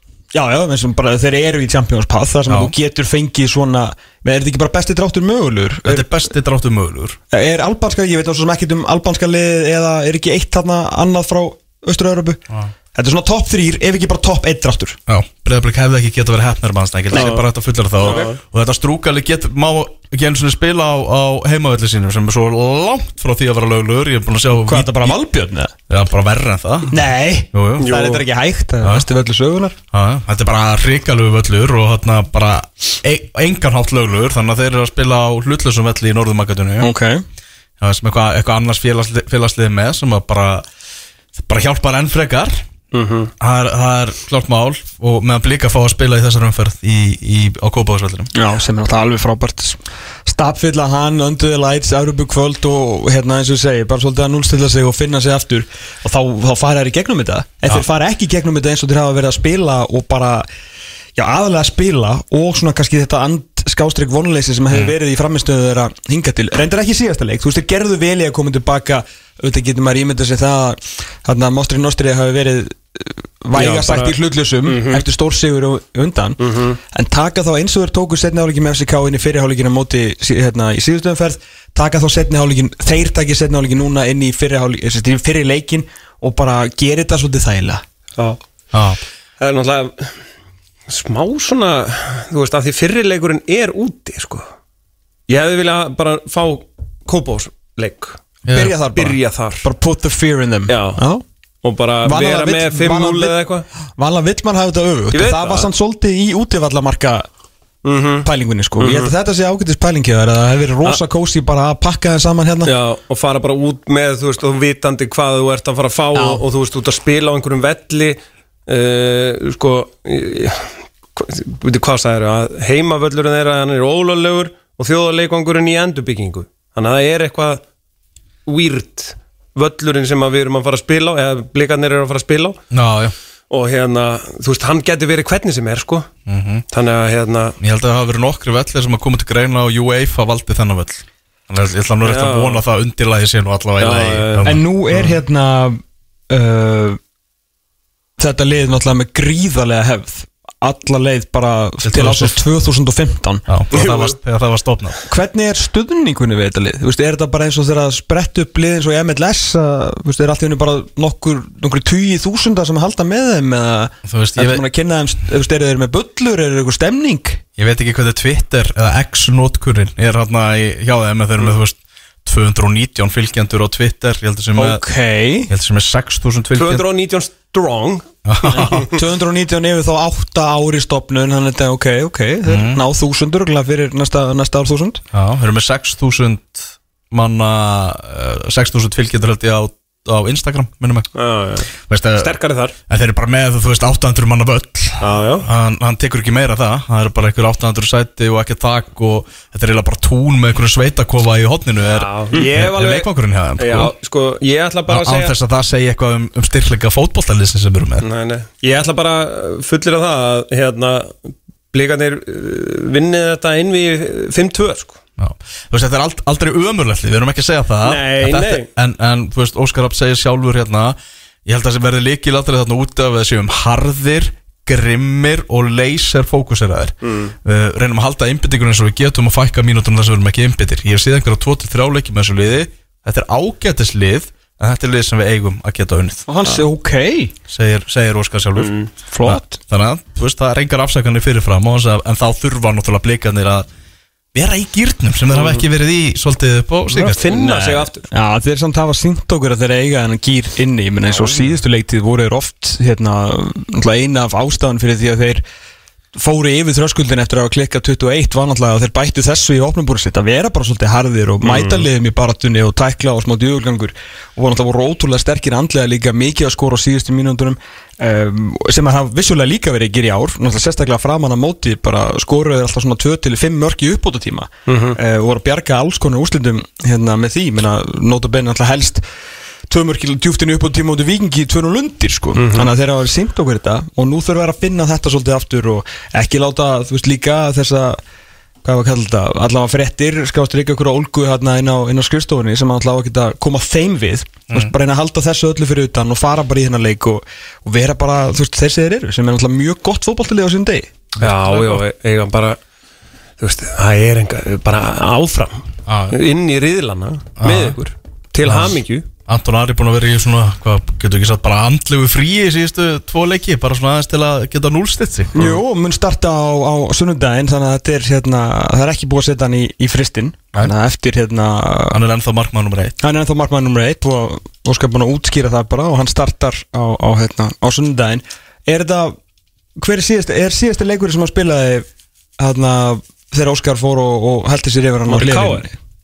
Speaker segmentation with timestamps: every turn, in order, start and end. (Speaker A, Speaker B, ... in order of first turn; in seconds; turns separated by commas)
Speaker A: 0.3-6.2, Speaker B: 2.5-2.7, Speaker B: 5.8-7.2, Speaker A: 7.3-12.4, Speaker A: 12.9-15.0, Speaker B: 15.1-25.2, Speaker C: 17.1-17.5, Speaker C: 18.0-18.4, Speaker A: 24.5-25.7, Speaker B: 25.9-27.0, Speaker A: 26.9-29.8, Speaker B: 27.5-27.9, Speaker C: 27.8-28.2, Speaker B: 28.8-29.1, Speaker B: 29.9-36.9, Speaker A: 36.8-37.2, Speaker B: 37.8-40.6, Speaker B: 41.4-42.6, Speaker C: 42.9-43.3, Speaker B: 43.4-48.3, Speaker A: 48.3-60.5, Speaker A: 61.1-87.8, Speaker C: 73.5-75.0, Speaker C: 76.4-76.8, Speaker B: 88.7-89.0, Speaker C: 89.4-90.2, Speaker C: 90.9-94.4, Speaker C: 95.3-98.2, Speaker B: 98.5-98.8, Speaker A: 98.5-101.2, Speaker C: 98.9-99.7, Speaker C: 100.7-101.0, Speaker C: 101.6-103.7, Speaker A: 102.0-103.3, Speaker A: 104.0-107.3, Speaker C: 105.1-105.7, Speaker C: 107.8-109.1, Speaker A: 108.2-112.7, Speaker C: 112.6-127.6, Speaker A: 116.1-116.4, Speaker C: 128.5-132.6, Speaker B: 132.7-133.1, Speaker C: 133.5-136.1, Speaker B: 136.3-136.6, Speaker C: 136.7-137.6, Speaker B: 137.6-145.1, Speaker C: 142.0-142.6, Speaker C: 143.8-144.6, Speaker A: 144.4-147.0, Speaker A: 148.2-153.5, Speaker B: 151.8-152.4, Speaker B: 153.5-155.0, Speaker C: 153.7-154.2, Speaker A: 155.1-167.4, Speaker B: 164.1-164.6, Speaker B: 167.6-174.8, Speaker A: 174.6-175.5, Speaker B: 175.5-176.8, Speaker C: 176.5-178.9, Speaker B: 178.2-178.8, Speaker A: 178.5-185.0, Speaker B: 182.5-182.8, Speaker B: 185.1-191.1, Speaker C: 191.1-192.7, Speaker B: 191.8-192.3, Speaker B: 192.9-203.9, Speaker C: 195.0-195.5, Speaker C: 201.9-205.3, Speaker B: 204.9-208.1, Speaker C: 208.0-215.0, Speaker B: 215.2-236.2, Speaker C: 217.8-218.7, Speaker C: 227.0-227.3, Speaker A: 236.3-237.3, Speaker B: 237.5-243.7, Speaker C: 238.6-238.9, Speaker A: 239.1-239.6, Speaker B: 244.3-247.2, Speaker C: 245.3-245.6, Speaker C: 246.9-248.1, Speaker A: 247.3-255.4, Speaker A: 256.1-279.0, Speaker C: 261.4-261.8, Speaker C: 274.7-275.0, Speaker A: 279.7-288.0, Speaker C: 282.4-282.7, Speaker A: 288.6-300.9, Speaker B: 301.2-301.8, Speaker C: 301.2-302.6, Speaker C: 303.4-309.0, Speaker B: 305.9-306.1, Speaker B: 307.4-307.8, Speaker B: 308.4-315.4, Speaker A: 315.3-322.0, Speaker B: 321.9-322.9, Speaker A: 323.0-329.2, Speaker A: 329.8-331.9, Speaker A: 332.4-335.7, Speaker C: 335.1-335.7